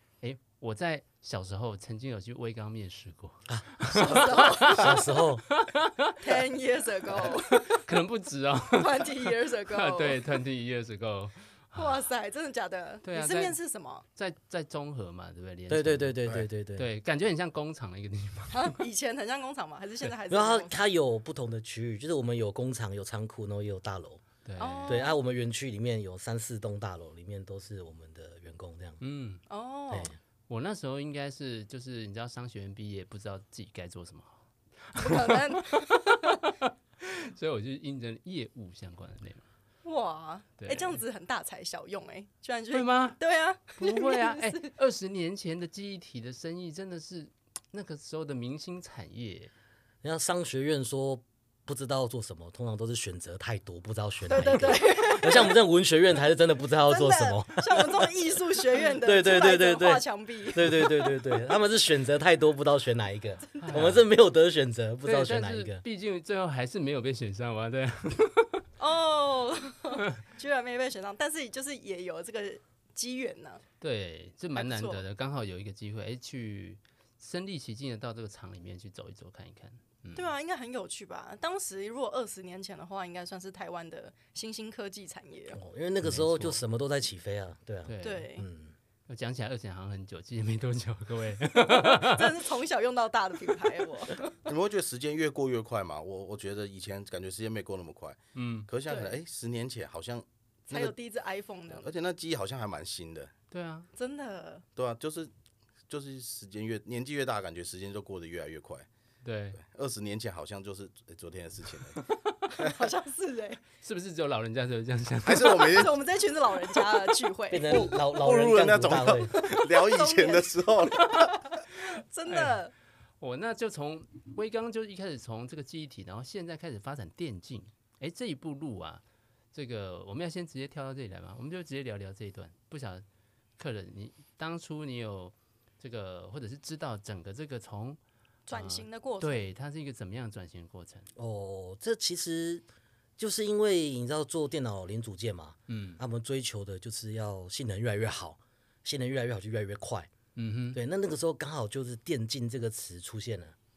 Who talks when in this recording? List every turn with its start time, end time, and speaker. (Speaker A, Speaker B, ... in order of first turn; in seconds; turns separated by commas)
Speaker A: 0.2-6.4, Speaker B: 3.5-5.4, Speaker C: 3.9-5.0, Speaker C: 6.2-7.9, Speaker A: 7.1-12.1, Speaker C: 8.7-10.2, Speaker C: 11.8-14.1, Speaker A: 13.0-13.6, Speaker A: 14.2-18.8, Speaker B: 15.7-16.9, Speaker C: 18.5-20.8, Speaker B: 20.3-24.2, Speaker A: 24.4-25.0, Speaker C: 24.6-25.2, Speaker B: 24.9-29.0, Speaker A: 29.0-29.4, Speaker C: 29.5-30.1, Speaker B: 29.9-30.2, Speaker A: 30.5-39.5, Speaker C: 35.0-36.5, Speaker C: 39.8-44.7, Speaker A: 40.6-41.0, Speaker A: 42.7-43.2, Speaker A: 43.8-49.5, Speaker B: 50.0-58.1, Speaker C: 54.2-55.6, Speaker A: 54.3-54.8, Speaker C: 56.9-61.4, Speaker B: 59.0-65.8, Speaker A: 63.6-64.1, Speaker A: 65.0-68.6, Speaker C: 68.8-73.6, Speaker A: 73.8-80.3, Speaker C: 74.5-75.0, Speaker C: 80.1-85.6, Speaker B: 85.5-88.8, Speaker A: 86.0-86.6, Speaker A: 87.9-88.3, Speaker C: 88.0-88.5, Speaker A: 89.1-92.5, Speaker C: 91.9-94.4, Speaker D: 94.5-100.9, Speaker A: 98.3-98.7, Speaker C: 98.9-99.2, Speaker C: 100.7-101.9, Speaker D: 101.7-103.3, Speaker A: 103.5-103.9, Speaker C: 104.0-104.6, Speaker D: 104.8-105.3, Speaker D: 105.9-108.9, Speaker A: 109.2-109.6, Speaker D: 109.6-112.0, Speaker C: 112.5-113.6, Speaker A: 113.8-115.9, Speaker D: 115.2-116.0, Speaker C: 115.4-117.9, Speaker B: 117.5-119.3, Speaker D: 118.0-121.5, Speaker C: 119.5-122.7, Speaker A: 122.3-122.6, Speaker A: 123.2-129.0, Speaker A: 129.5-133.0, Speaker A: 133.6-138.0, Speaker C: 138.5-139.5, Speaker A: 138.5-141.1, Speaker B: 141.2-142.6, Speaker B: 143.2-150.1, Speaker A: 145.7-146.0, Speaker A: 150.4-150.8, Speaker B: 150.7-153.6